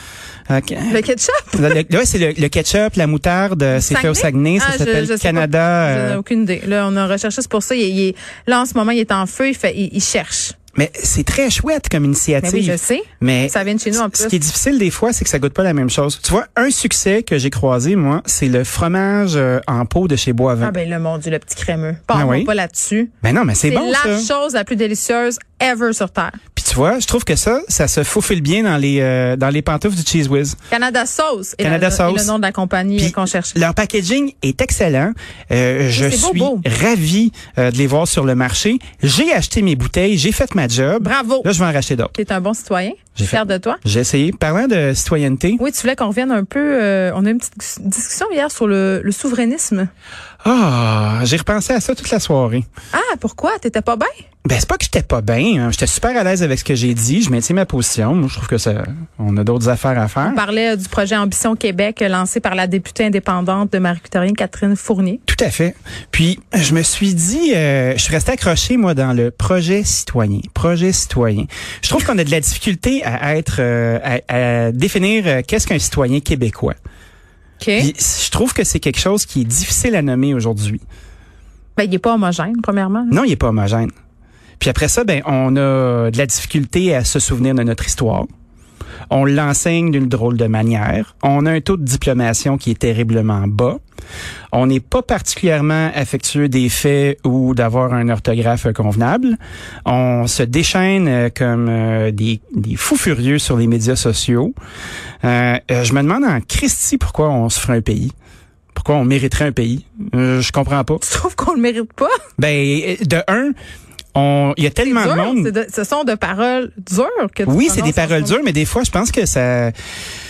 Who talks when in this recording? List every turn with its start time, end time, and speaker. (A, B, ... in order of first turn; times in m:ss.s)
0:00.5-0:01.0 A
0:00.9-0:01.7 B
0:01.5-0:06.2 A
0:03.7-0:10.6 B
0:10.8-0:20.7 A
0:12.4-0:14.4 B
0:20.6-0:23.1 B
0:22.1-0:22.5 A
0:23.2-0:24.3 A
0:23.6-0:26.4 B
0:26.6-0:30.6 A
0:30.7-0:33.6 B
0:31.6-0:32.3 A
0:33.0-0:42.1 A
0:36.0-0:36.6 B
0:41.0-0:41.5 B
0:42.2-0:43.8 B
0:43.2-0:45.6 A
0:45.6-0:49.9 B
0:50.4-0:52.6 A
0:52.9-0:54.1 B
0:54.5-1:00.4 A
1:00.2-1:05.2 B
1:05.3-1:16.8 A
1:17.6-1:17.9 B
1:17.8-1:20.8 A
1:21.8-1:23.2 B
1:23.1-1:23.9 A
1:24.6-1:28.3 A
1:29.1-1:33.8 A
1:34.5-1:44.5 A
1:45.2-1:48.1 A
1:48.7-1:51.0 A
1:51.0-1:52.2 B
1:52.4-1:53.6 A
1:54.2-1:55.5 A
1:54.8-1:58.4 B
1:57.5-1:59.7 A